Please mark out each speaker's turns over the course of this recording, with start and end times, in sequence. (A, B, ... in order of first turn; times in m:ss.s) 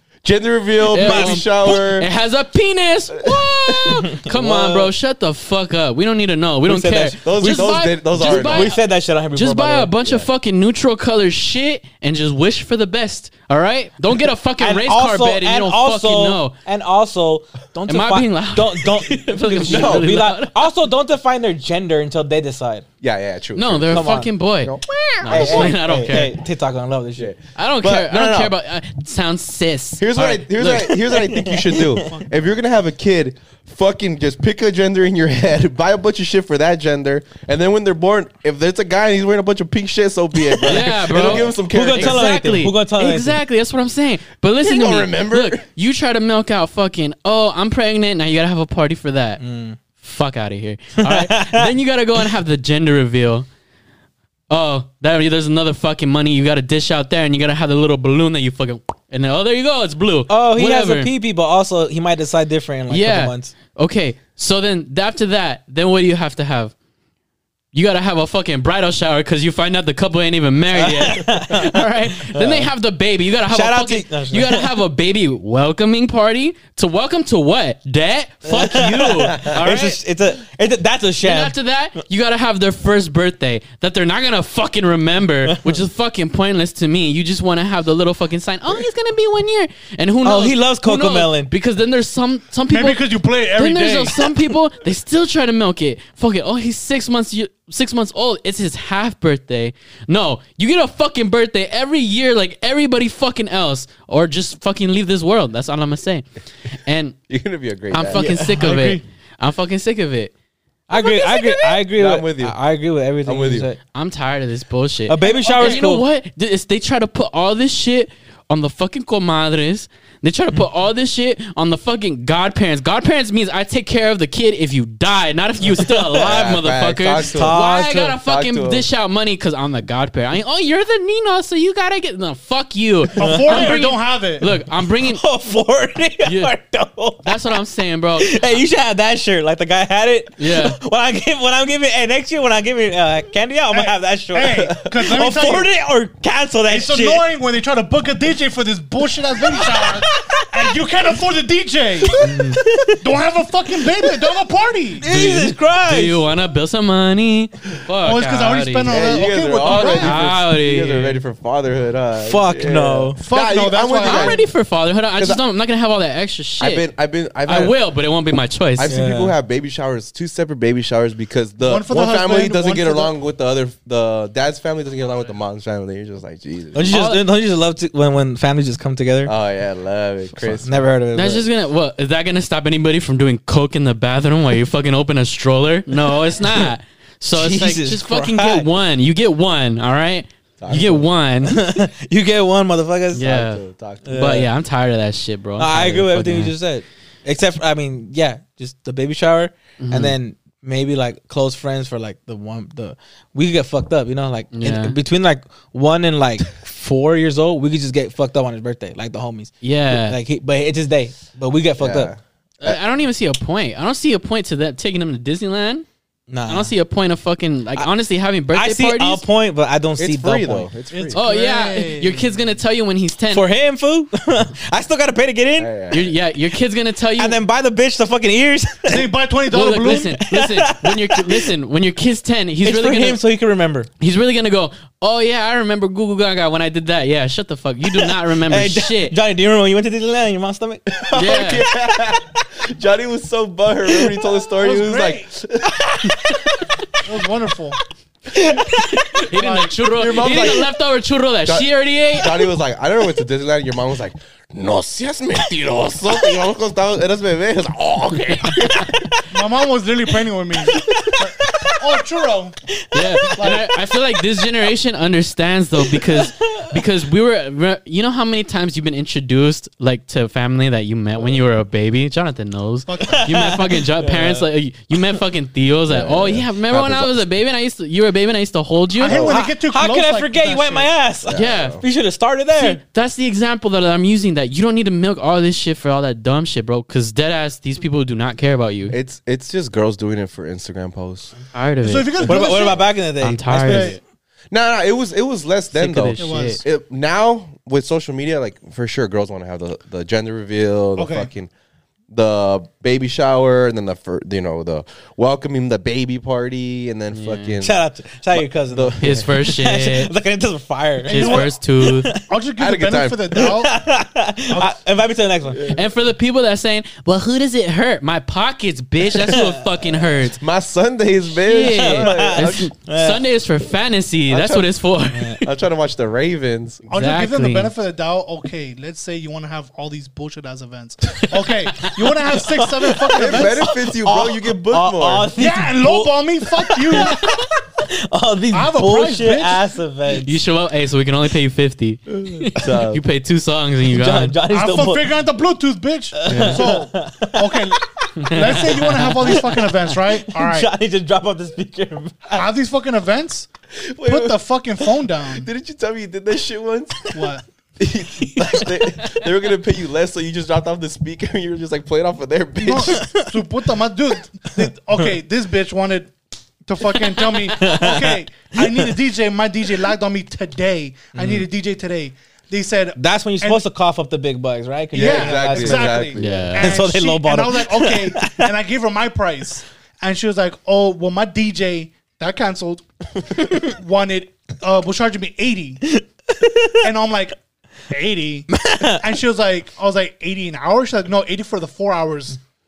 0:00.2-0:02.1 A
0:00.9-0:08.8 B
0:01.0-0:01.4 C
0:03.1-0:04.0 A
0:03.9-0:04.9 C
0:06.6-0:07.6 C
0:07.2-0:08.7 A
0:08.2-0:09.9 C
0:09.3-0:16.5 B
0:14.6-0:22.8 C
0:17.9-0:20.7 B
0:19.6-0:20.1 A
0:23.0-0:25.7 A
0:23.5-0:26.3 B
0:23.9-0:24.3 C
0:25.3-0:27.3 C
0:27.2-0:28.6 A
0:27.5-0:31.0 B
0:30.0-0:42.3 A
0:30.9-0:32.1 C
0:32.0-0:32.4 D
0:40.5-0:43.4 C
0:40.7-0:49.4 B
0:44.6-0:45.6 A
0:49.4-0:49.8 C
0:50.0-0:53.4 B
0:51.0-0:51.7 C
0:54.5-1:01.1 B
1:00.3-1:03.5 C
1:02.9-1:06.7 B
1:07.7-1:20.0 B
1:10.7-1:12.7 C
1:13.5-1:14.7 C
1:18.4-1:21.6 C
1:21.2-1:47.2 B
1:25.5-1:25.8 C
1:30.2-1:31.5 C
1:32.7-1:34.3 D
1:47.3-1:48.2 A
1:47.9-1:50.3 B
1:48.1-1:48.7 C
1:48.5-1:49.0 D
1:50.9-1:53.8 C
1:52.0-1:52.6 A
1:53.2-1:53.7 A
1:53.9-2:15.2 B
1:55.1-1:56.0 C
1:55.2-1:55.8 D
2:05.6-2:06.3 C
2:06.2-2:07.6 A
2:07.2-2:08.2 C
2:08.2-2:08.8 A
2:13.2-2:14.5 D
2:13.2-2:13.7 C
2:14.8-2:17.5 C
2:16.2-2:16.5 B
2:17.2-2:18.4 B
2:18.2-2:27.2 C
2:20.4-2:20.8 B
2:23.7-2:25.7 D
2:26.7-2:32.2 D
2:29.5-2:30.7 C
2:32.0-2:33.1 C
2:32.2-2:32.6 B
2:33.0-2:35.0 D
2:35.0-2:36.2 C
2:35.0-2:41.2 B
2:38.0-2:40.2 D
2:38.8-2:44.4 A
2:42.2-2:43.2 C
2:43.2-2:44.4 D
2:44.0-2:46.8 B
2:46.6-2:47.8 A
2:47.4-2:49.0 B
2:48.8-2:56.9 A
2:48.8-2:49.3 C
2:51.6-2:53.1 D
2:56.7-2:59.3 C
2:56.9-2:57.2 B
2:59.2-3:00.8 A
3:00.4-3:01.4 C
3:01.1-3:11.6 B
3:07.3-3:08.6 C
3:10.6-3:11.1 A
3:11.4-3:13.3 C
3:13.1-3:16.5 B
3:13.2-3:14.4 A
3:14.0-3:14.5 C
3:15.6-3:32.1 C
3:19.8-3:20.1 B
3:24.5-3:24.9 B
3:29.6-3:30.2 B
3:31.8-3:32.8 A
3:32.6-3:35.8 B
3:36.3-3:36.7 C
3:36.5-3:39.2 B
3:38.5-3:40.7 C
3:40.0-3:41.2 A
3:40.9-3:42.3 D
3:41.1-3:43.4 B
3:43.3-3:45.7 C
3:45.6-3:46.2 A
3:45.9-3:47.4 B
3:47.2-3:49.1 C
3:48.9-3:50.2 D
3:49.5-3:53.2 B
3:49.9-3:51.5 C
3:52.6-3:53.9 C
3:54.0-3:59.2 B
3:57.9-4:01.5 C
4:01.0-4:06.4 A
4:01.1-4:01.6 B
4:03.9-4:04.2 C
4:04.6-4:05.3 D
4:07.0-4:07.8 D
4:08.3-4:08.9 C
4:08.7-4:12.3 B
4:09.3-4:09.8 D
4:09.9-4:10.7 A
4:11.4-4:19.0 A
4:19.3-4:22.6 D
4:20.6-4:22.0 C
4:22.7-4:24.4 C
4:22.9-4:39.3 B
4:23.4-4:23.6 D
4:25.8-4:26.7 C
4:32.9-4:33.2 D
4:33.0-4:35.2 C
4:35.9-4:37.2 A
4:39.0-4:40.9 D
4:39.0-4:39.4 A
4:39.1-4:42.8 C
4:41.2-4:41.8 A
4:41.3-4:41.8 B
4:42.5-4:48.9 B
4:48.9-4:51.3 A
4:51.5-4:52.6 B
4:51.8-4:52.9 D
4:52.2-4:54.0 C
4:53.2-4:54.0 B
4:53.5-4:54.0 D
4:54.5-5:01.5 A
4:55.7-4:56.6 B
4:56.2-4:56.6 D
5:01.0-5:01.3 D
5:02.1-5:09.3 A
5:07.1-5:07.6 B
5:07.6-5:12.2 C
5:09.0-5:10.1 B
5:11.0-5:11.5 D
5:11.1-5:12.1 B
5:12.2-5:13.7 D
5:12.6-5:13.5 A
5:13.3-5:15.6 C
5:14.5-5:14.8 D
5:15.5-5:15.8 A
5:15.7-5:20.4 B
5:19.3-5:19.6 C
5:20.2-5:22.7 A
5:21.4-5:25.5 B
5:21.7-5:23.2 C
5:24.3-5:24.7 A
5:25.4-5:26.9 A
5:26.9-5:33.7 D
5:26.9-5:27.7 B
5:31.2-5:32.1 B
5:32.3-5:40.4 C
5:33.2-5:35.3 A
5:35.4-5:37.4 D
5:38.5-5:39.6 D
5:40.2-5:44.4 B
5:42.6-5:43.0 A
5:43.9-5:45.2 C
5:44.5-5:50.7 D
5:46.1-5:52.4 C
5:46.3-5:46.6 B
5:48.2-5:49.5 B
5:52.3-5:53.5 D
5:53.8-5:54.4 A
5:54.0-5:55.5 D
5:55.3-5:57.0 A
5:57.1-5:57.4 D
5:57.8-6:03.1 A
6:02.6-6:06.1 D
6:02.9-6:03.3 C
6:06.6-6:13.6 D
6:07.0-6:08.9 C
6:11.1-6:11.4 B
6:13.0-6:18.5 C
6:14.9-6:16.6 A
6:14.9-6:26.0 D
6:16.2-6:16.8 B
6:25.9-6:26.8 C
6:26.8-6:27.4 D
6:27.9-6:32.4 D
6:28.5-6:29.0 C